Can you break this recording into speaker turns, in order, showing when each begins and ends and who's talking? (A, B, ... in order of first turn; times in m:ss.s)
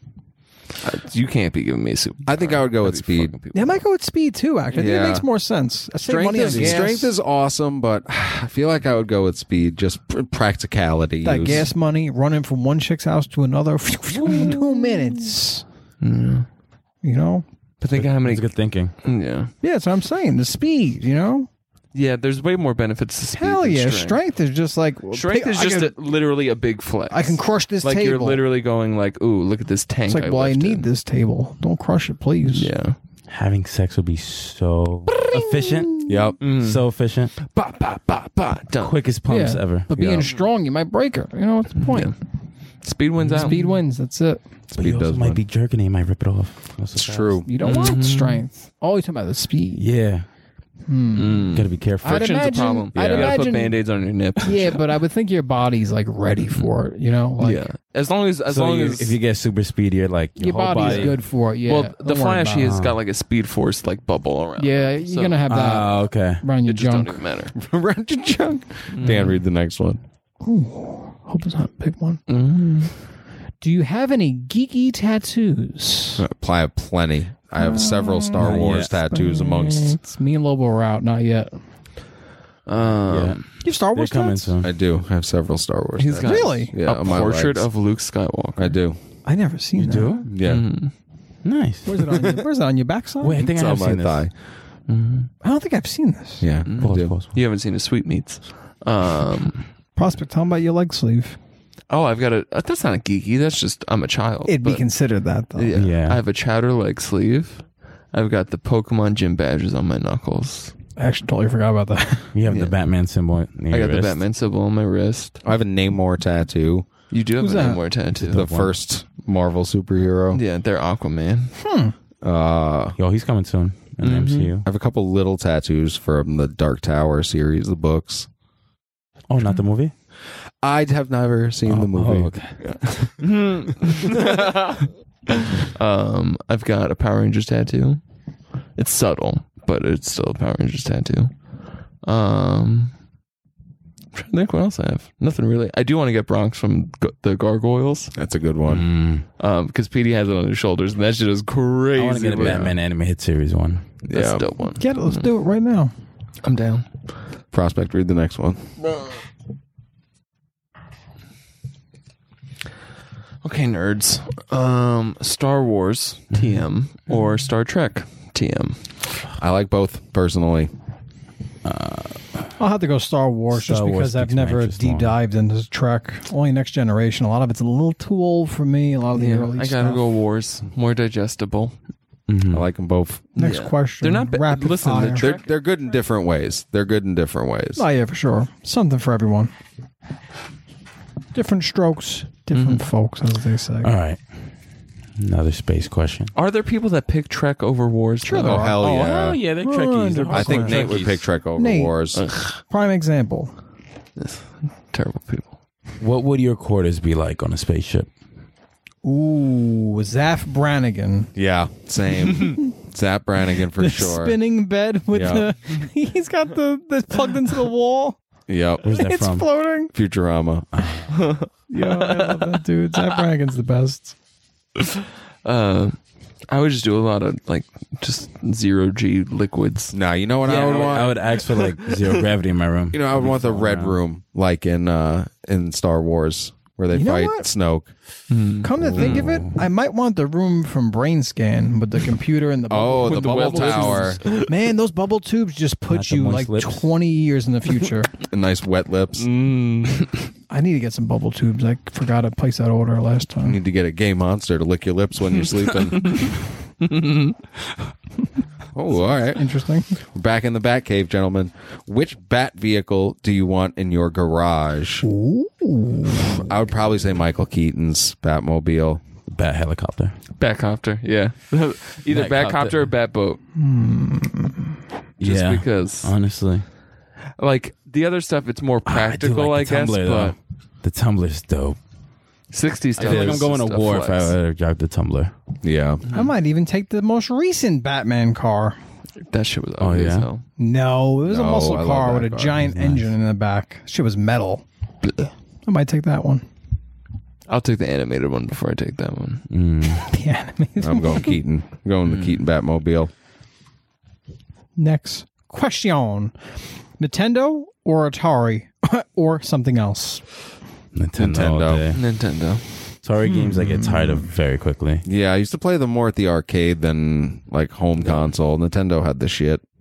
0:00.8-0:03.8 A
0:02.3-0:03.3 B
0:03.5-0:07.1 C
0:04.7-0:05.2 B
0:06.0-0:11.7 B
0:11.2-0:15.6 C
0:14.3-0:14.6 D
0:16.0-0:16.5 A
0:17.0-0:17.4 C
0:17.8-0:19.5 A
0:18.0-0:18.9 D
0:19.6-0:21.5 C
0:21.9-0:24.2 A
0:23.4-0:26.0 C
0:25.1-0:30.8 A
0:27.1-0:28.4 C
0:30.1-0:32.7 C
0:32.5-0:33.0 A
0:33.3-0:37.3 D
0:35.3-0:36.2 C
0:36.1-0:36.4 B
0:36.4-0:36.8 A
0:37.4-0:39.0 A
0:38.8-0:39.9 D
0:39.3-0:42.1 C
0:40.0-0:40.3 B
0:41.8-0:42.2 A
0:42.8-0:43.7 A
0:43.3-0:43.6 D
0:43.4-0:44.4 C
0:44.7-0:45.4 B
0:44.8-0:47.4 D
0:47.0-0:47.5 B
0:47.4-0:49.8 C
0:47.6-0:48.4 A
0:49.8-0:50.3 D
0:50.9-0:53.9 C
0:51.2-0:54.8 A
0:51.5-0:52.5 D
0:53.0-0:53.4 B
0:54.4-0:57.7 C
0:57.4-0:59.2 A
0:58.5-1:01.2 D
1:00.4-1:02.8 C
1:00.8-1:05.4 A
1:02.6-1:03.0 D
1:04.6-1:07.2 C
1:05.5-1:06.4 D
1:06.7-1:07.6 A
1:07.6-1:10.0 B
1:08.9-1:09.3 A
1:10.4-1:12.2 C
1:12.3-1:12.9 A
1:13.6-1:16.2 C
1:16.2-1:20.0 B
1:17.6-1:21.6 C
1:18.4-1:18.9 D
1:22.7-1:23.4 A
1:23.1-1:24.7 D
1:23.6-1:24.5 C
1:24.6-1:27.7 B
1:26.0-1:28.8 A
1:26.2-1:26.7 C
1:28.6-1:29.0 B
1:29.2-1:30.3 C
1:29.8-1:30.3 D
1:30.3-1:30.6 B
1:30.4-1:30.9 A
1:31.4-1:32.0 D
1:31.8-1:33.5 C
1:33.2-1:34.2 D
1:33.4-1:34.3 B
1:34.9-1:35.3 A
1:35.4-1:36.5 C
1:36.4-1:37.2 B
1:36.7-1:39.6 A
1:36.8-1:37.3 D
1:40.0-1:41.4 C
1:41.9-1:44.8 A
1:44.5-1:45.8 C
1:45.6-1:50.8 A
1:45.7-1:46.2 D
1:51.0-1:52.4 C
1:52.3-1:54.2 D
1:52.5-1:52.8 A
1:53.7-1:55.4 A
1:55.4-1:56.9 B
1:57.1-1:58.4 A
1:57.4-1:57.8 C
1:58.2-2:00.4 B
1:58.2-1:58.7 D
2:00.3-2:01.5 A
2:01.6-2:01.9 C
2:02.2-2:03.0 B
2:03.0-2:04.7 D
2:04.0-2:04.5 A
2:04.6-2:08.3 B
2:09.3-2:09.9 D
2:10.6-2:13.2 B
2:11.7-2:12.5 D
2:13.2-2:18.0 A
2:18.8-2:21.3 A
2:22.0-2:22.9 A
2:24.1-2:28.1 A
2:28.2-2:28.9 B
2:28.7-2:29.2 D
2:29.4-2:32.8 A
2:32.0-2:33.9 D
2:34.1-2:34.5 B
2:34.1-2:35.3 A
2:34.7-2:35.9 C
2:36.4-2:36.9 A
2:37.5-2:38.6 B
2:43.4-2:48.8 A
2:49.4-2:50.7 B
2:51.6-2:52.5 D
2:52.6-3:00.0 C
2:53.5-2:55.2 D
2:59.2-3:01.8 A
3:02.3-3:02.7 D
3:02.5-3:03.3 B
3:03.4-3:05.3 C
3:03.4-3:05.5 A
3:05.2-3:07.8 B
3:07.8-3:09.5 C
3:11.3-3:13.9 C
3:12.5-3:12.8 A
3:13.8-3:14.2 D
3:15.2-3:16.3 D
3:16.4-3:18.7 A
3:18.2-3:18.8 C
3:18.4-3:19.4 B
3:18.8-3:21.2 D
3:19.6-3:21.0 C
3:20.3-3:22.2 B
3:21.6-3:22.0 C
3:22.1-3:22.6 A
3:22.6-3:23.5 C
3:24.2-3:25.5 A
3:26.0-3:28.1 D
3:29.0-3:31.3 C
3:31.4-3:34.4 B
3:33.8-3:38.2 C
3:35.1-3:35.5 B
3:38.5-3:38.8 B
3:38.8-3:39.5 D
3:38.9-3:39.9 C
3:39.9-3:40.7 B
3:40.7-3:41.2 D
3:41.1-3:42.6 A
3:41.7-3:44.2 C
3:44.8-3:46.0 A
3:46.5-3:52.2 A
3:49.9-3:51.2 B
3:50.5-3:54.0 D
3:52.9-3:57.9 B
3:56.9-3:57.5 C
3:58.3-3:59.3 A
3:58.6-4:08.1 C
3:58.8-3:59.6 D
4:02.7-4:04.2 B
4:03.0-4:04.5 A
4:05.9-4:06.8 D
4:08.3-4:09.3 B
4:09.2-4:10.1 A
4:10.5-4:13.6 C
4:13.4-4:16.3 B
4:15.9-4:17.4 A
4:18.8-4:25.0 B
4:19.3-4:20.0 C
4:25.0-4:26.4 C
4:26.2-4:29.0 B
4:29.3-4:30.2 D
4:30.4-4:33.4 A
4:32.1-4:32.8 D
4:33.6-4:34.7 C
4:35.2-4:36.6 D
4:35.2-4:36.1 A
4:37.4-4:40.4 A
4:38.9-4:41.8 D
4:42.5-4:44.4 A
4:43.0-4:45.3 D
4:43.0-4:43.4 B
4:45.6-4:46.0 B
4:46.1-4:48.8 C
4:49.2-4:50.4 A
4:49.8-4:50.3 D
4:50.6-4:54.6 C
4:51.3-4:52.6 B
4:52.6-4:53.1 D
4:55.7-4:56.4 C
4:57.5-4:59.5 A
4:59.5-5:00.1 D
5:00.0-5:01.4 C
5:00.8-5:03.1 B
5:02.1-5:02.4 A
5:04.8-5:06.4 C
5:07.0-5:10.2 C
5:10.9-5:12.0 D
5:11.2-5:11.9 B
5:11.9-5:12.6 A
5:13.0-5:15.0 D
5:13.2-5:14.3 C
5:15.0-5:19.6 B